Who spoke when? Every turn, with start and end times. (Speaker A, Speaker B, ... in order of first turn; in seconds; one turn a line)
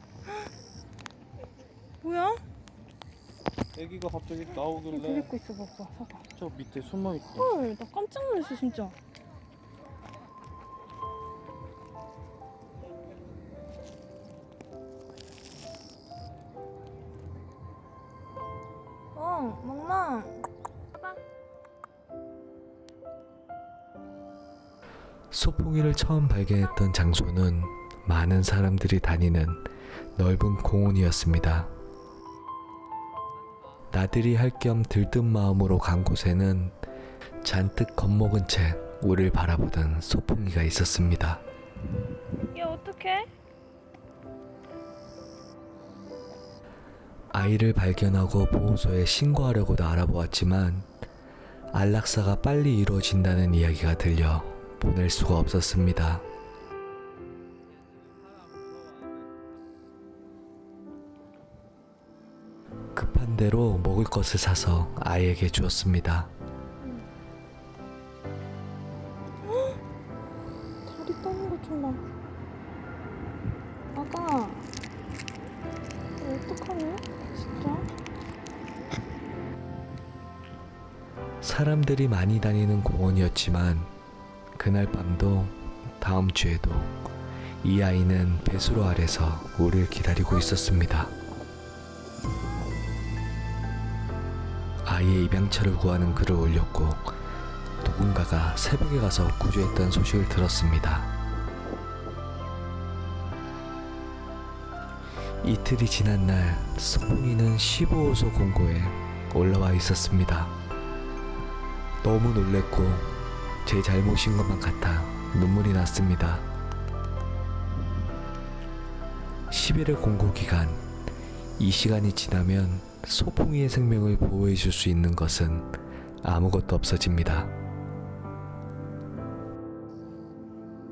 Speaker A: 2.0-2.4
Speaker B: 3.7-5.3
Speaker A: 4.9-6.2
Speaker B: 6.3-7.5
Speaker A: 7.3-8.9
Speaker A: 19.1-20.4
Speaker C: 25.3-31.7
Speaker C: 33.9-36.7
Speaker C: 37.4-41.4
Speaker A: 42.4-43.3
Speaker C: 47.3-50.9
Speaker C: 51.7-56.2
Speaker C: 62.9-66.3
Speaker A: 66.8-67.1
Speaker A: 70.8-72.0
Speaker A: 73.9-74.7
Speaker A: 76.2-77.9
Speaker C: 81.4-83.9
Speaker C: 84.5-87.0
Speaker C: 87.6-91.1
Speaker C: 94.8-97.1
Speaker C: 97.8-101.1
Speaker C: 105.4-110.5
Speaker C: 112.0-116.5
Speaker C: 119.5-120.8
Speaker C: 121.6-127.5